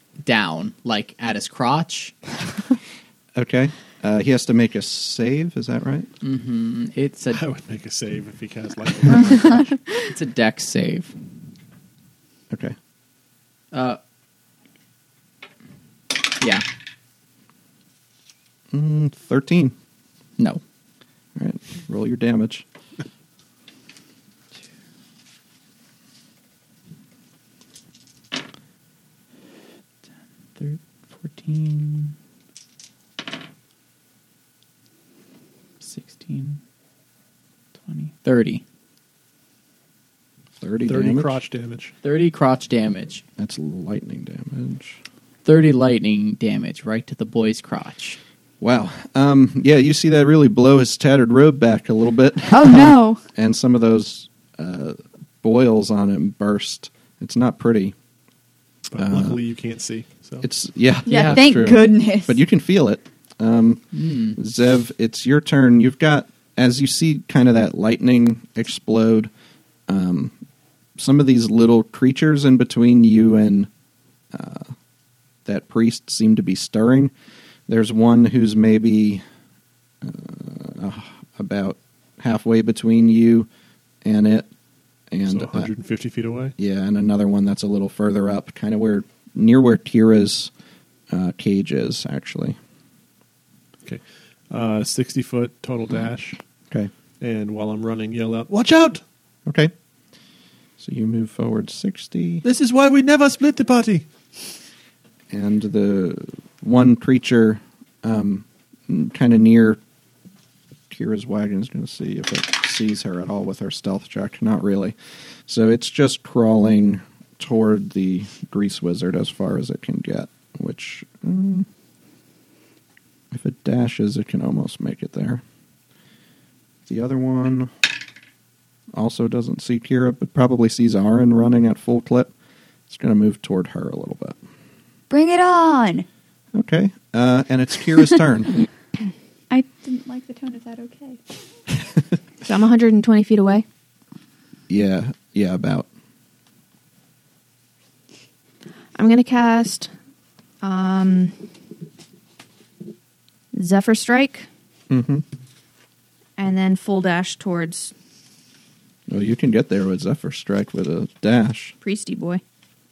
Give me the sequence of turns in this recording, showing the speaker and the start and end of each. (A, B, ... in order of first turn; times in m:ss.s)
0:00.2-0:02.3 A
0:03.4-0:06.1 B
0:06.2-0:07.4 A
0:07.3-0:09.7 C
0:09.1-0:11.1 A
0:12.5-0:12.8 B
0:13.7-0:14.0 A
0:16.2-0:16.6 A
0:18.7-0:19.8 B
0:21.4-0:22.7 B
0:30.6-0:32.2 A
0:35.8-0:36.6 A
0:37.9-0:38.6 A
0:40.6-0:41.4 B
0:40.9-0:41.9 C
0:42.0-0:43.2 A
0:43.4-0:45.0 B
0:45.4-0:48.2 A
0:48.6-0:58.0 B
0:52.5-0:53.2 D
0:58.9-1:00.5 C
0:59.0-0:59.4 B
1:00.4-1:09.3 B
1:01.1-1:01.5 A
1:01.1-1:02.4 D
1:03.9-1:04.4 A
1:09.9-1:10.3 B
1:11.0-1:13.7 B
1:14.3-1:14.8 B
1:15.4-1:17.1 B
1:17.7-1:19.2 B
1:20.0-1:23.5 B
1:24.0-1:24.5 B
1:25.1-1:25.7 B
1:25.3-1:26.5 C
1:26.6-1:30.5 B
1:31.1-1:32.6 B
1:33.8-1:36.4 C
1:37.2-1:39.0 C
1:39.5-1:39.7 B
1:40.8-1:42.4 B
1:42.4-1:44.1 C
1:45.3-1:49.8 B
1:50.9-1:54.9 B
1:55.5-2:01.7 B
2:03.3-2:05.4 B
2:06.9-2:07.7 B
2:08.9-2:12.3 B
2:12.9-2:14.4 B
2:15.1-2:16.1 D
2:16.5-2:18.6 B
2:19.5-2:21.2 D
2:22.4-2:23.6 E
2:24.7-2:25.9 B
2:29.0-2:29.9 E
2:30.6-2:31.4 E
2:33.5-2:34.5 E
2:34.9-2:35.2 B
2:36.4-2:37.9 E
2:39.1-2:41.8 B
2:41.8-2:42.4 E